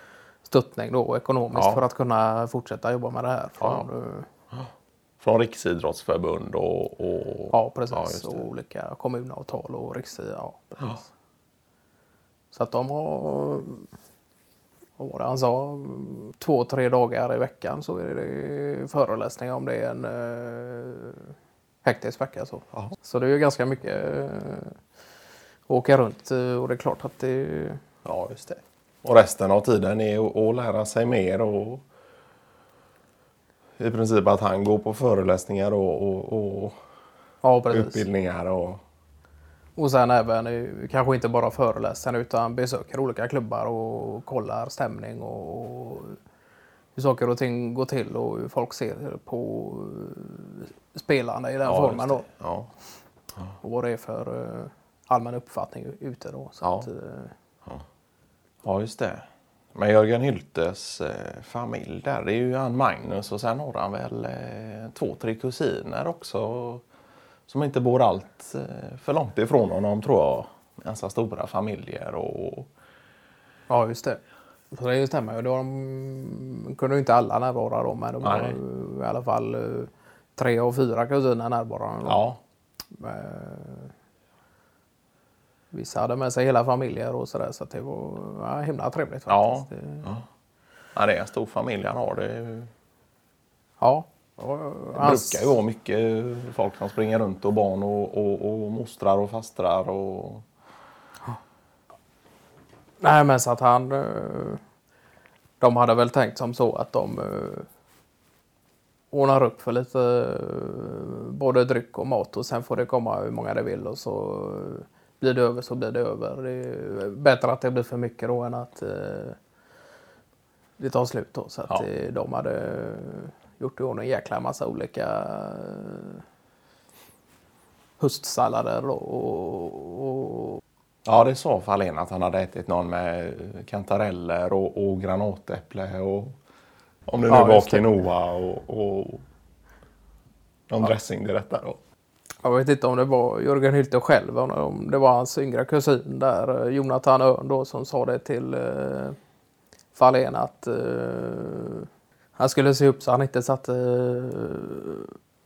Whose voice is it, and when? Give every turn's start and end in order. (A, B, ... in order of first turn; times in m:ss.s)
0:00.4-0:04.3 A
0:01.5-0:01.8 B
0:03.6-0:03.9 B
0:05.2-0:08.5 B
0:07.5-0:11.0 A
0:12.5-0:13.9 A
0:15.0-0:21.3 A
0:21.8-0:24.8 A
0:25.7-0:27.8 A
0:28.0-0:31.8 B
0:33.8-0:36.8 B
0:37.4-0:38.1 A
0:37.7-0:38.8 B
0:39.8-0:46.2 A
0:46.9-0:52.3 A
0:51.6-0:52.7 B
0:53.6-0:57.3 A
0:56.6-0:56.9 B
0:58.6-1:06.8 B
1:07.5-1:12.7 B
1:13.7-1:22.3 A
1:18.2-1:18.6 B
1:22.0-1:22.4 B
1:22.9-1:23.9 A
1:25.7-1:30.1 A
1:29.3-1:30.2 B
1:30.9-1:32.7 B
1:33.8-1:35.5 A
1:34.9-1:40.4 B
1:43.0-1:44.6 A
1:45.6-1:47.7 A
1:49.1-1:59.4 A
2:00.8-2:06.2 A
2:08.0-2:10.6 A
2:11.0-2:16.3 B
2:17.1-2:19.2 B
2:17.3-2:17.9 A
2:20.7-2:21.8 B
2:22.4-2:29.2 A
2:29.9-2:35.1 A